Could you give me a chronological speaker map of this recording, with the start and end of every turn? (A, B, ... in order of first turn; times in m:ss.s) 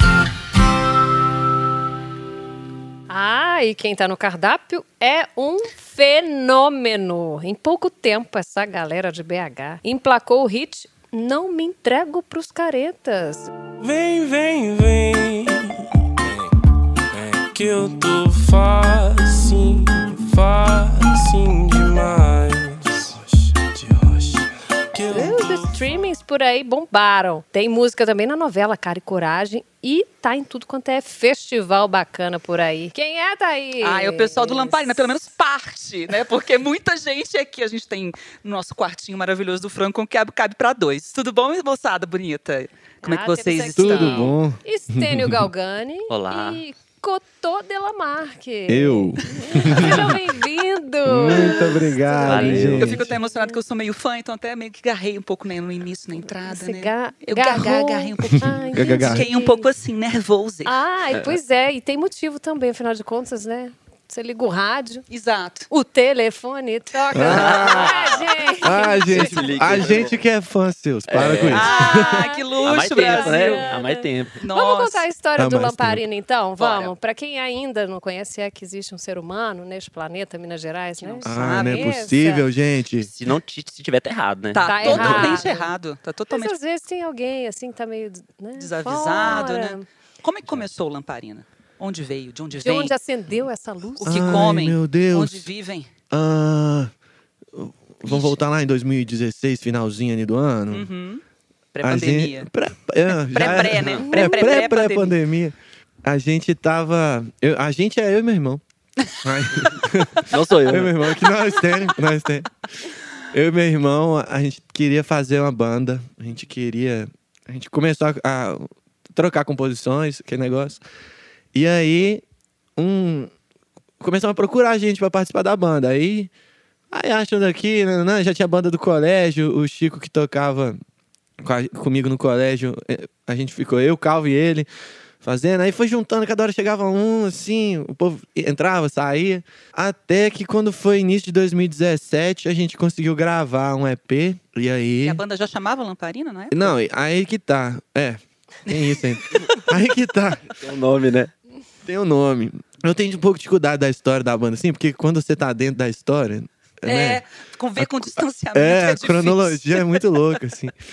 0:03.1-0:13.5 A
0:13.8-0:16.5 B
0:17.1-0:25.8 B
0:25.0-0:35.1 A
0:33.8-0:44.3 C
0:43.0-0:53.6 A
0:43.7-0:45.5 D
0:46.1-0:46.6 E
0:48.7-0:50.1 D
0:51.0-0:53.1 D
0:52.2-0:53.0 E
0:52.6-1:00.7 C
0:56.5-0:59.6 A
0:58.7-0:59.3 D
1:00.6-1:05.0 A
1:01.1-1:01.4 E
1:05.1-1:05.7 C
1:05.7-1:09.3 A
1:07.1-1:08.0 D
1:07.2-1:10.2 E
1:08.6-1:12.3 D
1:11.1-1:11.7 E
1:11.5-1:13.6 C
1:11.6-1:22.4 A
1:12.6-1:14.4 E
1:14.4-1:15.1 C
1:15.4-1:16.0 D
1:16.6-1:16.9 C
1:21.0-1:22.3 C
1:21.2-1:23.1 D
1:23.0-1:25.4 E
1:24.5-1:26.5 C
1:24.6-1:25.7 A
1:26.3-1:29.8 A
1:28.6-1:32.9 C
1:32.5-1:34.5 A
1:34.0-1:35.9 C
1:34.0-1:35.5 D
1:36.1-1:36.9 D
1:37.5-1:40.9 D
1:38.0-1:38.4 C
1:40.7-1:41.2 C
1:41.7-1:42.5 C
1:41.8-1:48.6 D
1:43.1-1:45.1 C
1:43.4-1:44.1 E
1:49.2-1:52.5 D
1:50.3-1:51.0 E
1:53.3-2:00.8 D
2:01.5-2:02.2 D
2:02.8-2:03.3 D
2:04.0-2:06.3 D
2:06.9-2:10.8 D
2:11.4-2:14.7 D
2:15.2-2:25.2 D
2:25.0-2:26.7 C
2:26.5-2:30.6 D
2:30.6-2:31.3 E
2:31.8-2:37.2 D
2:36.8-2:40.1 C
2:38.5-2:40.8 D